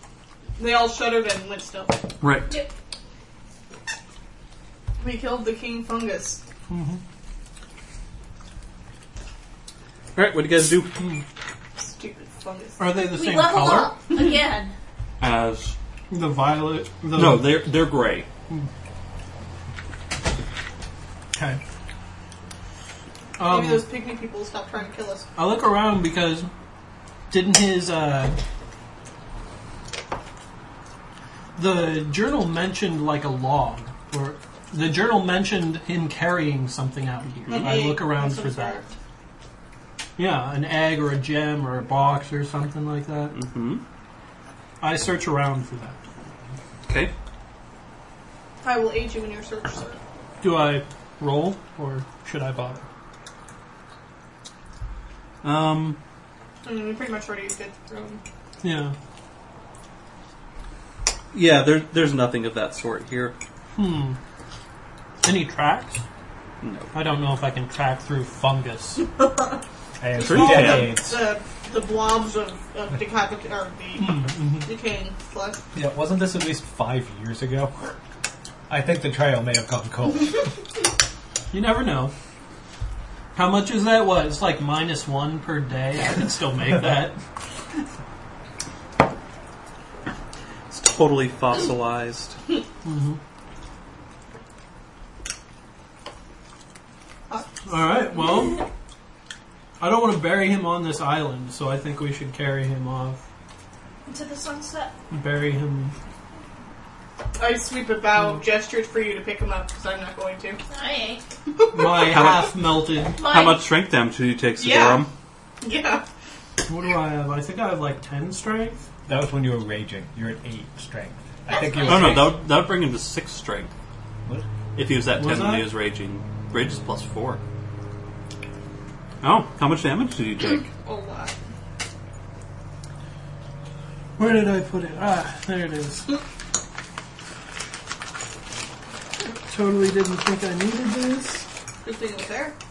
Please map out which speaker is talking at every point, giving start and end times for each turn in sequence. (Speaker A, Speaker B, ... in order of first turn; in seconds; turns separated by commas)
Speaker A: 0.6-2.0, Speaker B: 2.2-2.5, Speaker A: 5.0-6.4, Speaker C: 6.7-7.0, Speaker B: 10.2-10.9, Speaker C: 11.0-11.2, Speaker A: 11.8-12.9, Speaker C: 12.8-13.9, Speaker D: 13.1-14.7, Speaker B: 15.2-15.7, Speaker C: 16.1-17.7, Speaker B: 17.1-18.3, Speaker C: 21.3-21.6, Speaker C: 23.4-23.9, Speaker A: 23.4-25.3, Speaker C: 25.4-26.5, Speaker C: 27.3-28.4, Speaker C: 31.6-38.8, Speaker B: 37.5-38.0, Speaker A: 37.5-38.9, Speaker C: 40.2-43.4, Speaker B: 43.3-43.8, Speaker C: 44.8-46.0, Speaker B: 46.9-47.1, Speaker A: 48.6-50.0, Speaker C: 50.4-52.9, Speaker B: 55.4-56.0, Speaker A: 56.6-58.2, Speaker C: 58.6-59.0, Speaker B: 61.3-63.4, Speaker C: 63.8-64.2, Speaker C: 65.2-66.0, Speaker B: 66.6-66.9, Speaker C: 66.9-69.0, Speaker E: 70.0-71.2, Speaker A: 70.2-75.6, Speaker B: 70.2-71.0, Speaker C: 74.0-74.7, Speaker E: 75.7-77.8, Speaker E: 78.7-80.5, Speaker C: 81.5-82.1, Speaker C: 83.3-87.2, Speaker B: 90.7-92.4, Speaker C: 92.8-93.2, Speaker C: 97.6-98.6, Speaker C: 99.8-103.2, Speaker D: 104.1-104.9, Speaker C: 105.1-105.9, Speaker A: 107.4-110.6, Speaker D: 110.7-111.2, Speaker A: 111.5-112.3, Speaker C: 111.7-113.3, Speaker B: 111.9-115.1, Speaker D: 113.2-113.7, Speaker A: 114.6-115.1, Speaker A: 115.6-116.0, Speaker C: 116.7-118.8, Speaker E: 119.1-122.3, Speaker D: 121.5-122.2, Speaker B: 121.8-123.7, Speaker B: 124.8-127.4, Speaker C: 125.2-125.7, Speaker B: 129.2-130.7, Speaker A: 130.6-131.3, Speaker C: 134.2-136.1, Speaker C: 139.2-141.4, Speaker A: 141.8-142.6